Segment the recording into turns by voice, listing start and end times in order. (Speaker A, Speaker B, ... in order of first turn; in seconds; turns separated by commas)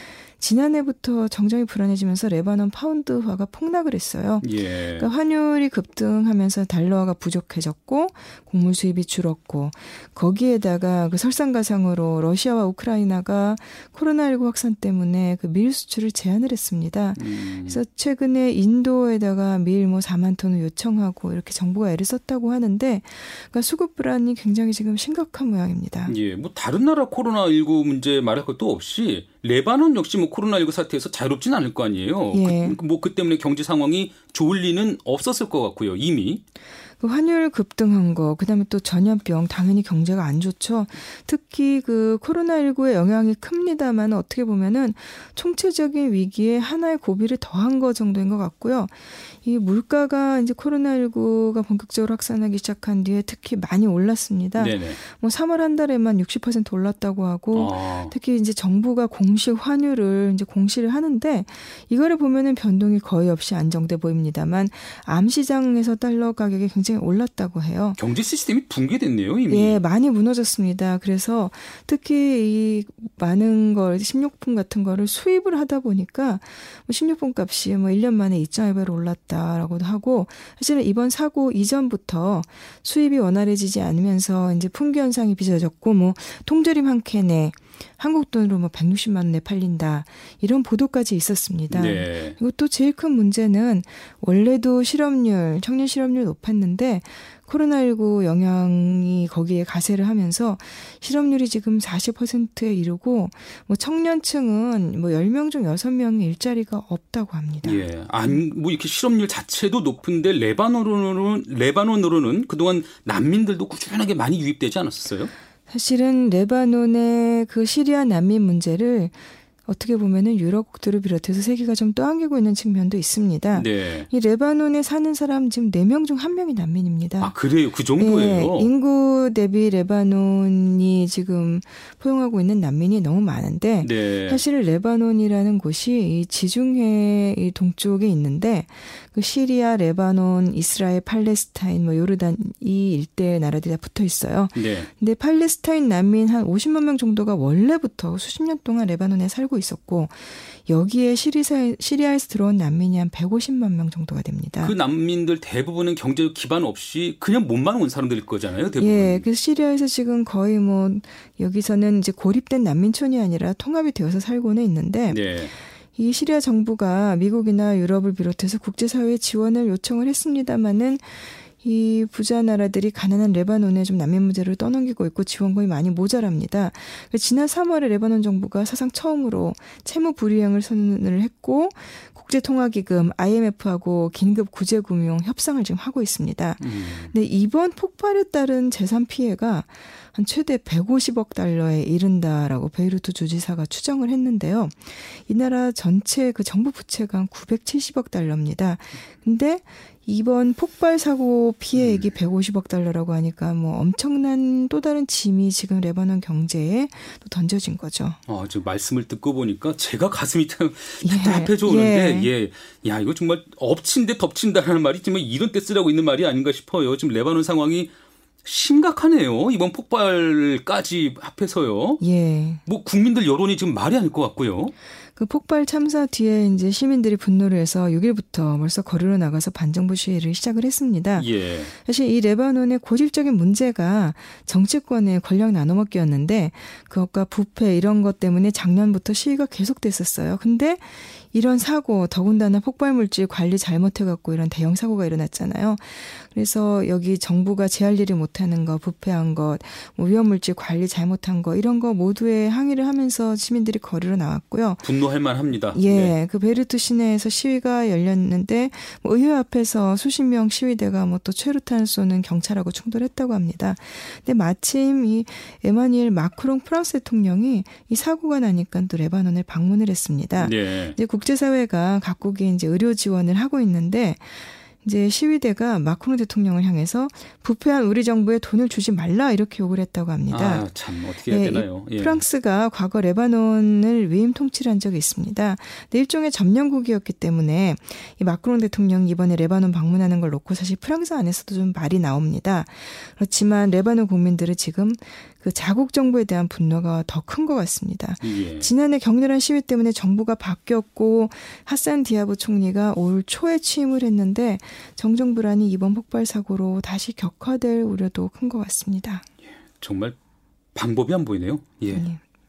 Speaker A: 0.4-26.2, Speaker B: 4.4-5.1, Speaker B: 17.2-17.8, Speaker B: 26.1-36.4, Speaker A: 32.3-32.8, Speaker A: 37.0-68.0, Speaker B: 54.6-55.0, Speaker B: 57.5-58.1, Speaker B: 68.0-69.8, Speaker A: 69.5-108.4, Speaker B: 91.7-92.4, Speaker B: 107.6-115.3, Speaker A: 115.7-127.3, Speaker B: 123.5-124.1, Speaker B: 127.2-128.7, Speaker A: 128.0-154.8, Speaker B: 133.8-134.4, Speaker B: 144.6-144.9, Speaker B: 154.6-159.3, Speaker A: 158.8-165.2, Speaker B: 165.1-165.5, Speaker A: 165.9-208.2, Speaker B: 186.6-187.1, Speaker B: 201.8-202.1, Speaker B: 208.3-217.9, Speaker A: 211.0-212.3, Speaker B: 218.4-222.0, Speaker A: 222.0-222.6, Speaker B: 222.7-224.7, Speaker A: 225.2-254.9, Speaker B: 231.2-231.7, Speaker B: 254.8-256.1, Speaker A: 255.7-280.7, Speaker B: 270.4-271.0, Speaker B: 280.3-282.2, Speaker A: 281.2-309.2, Speaker B: 298.2-298.7, Speaker B: 309.8-310.2, Speaker B: 310.8-312.1, Speaker A: 311.9-312.2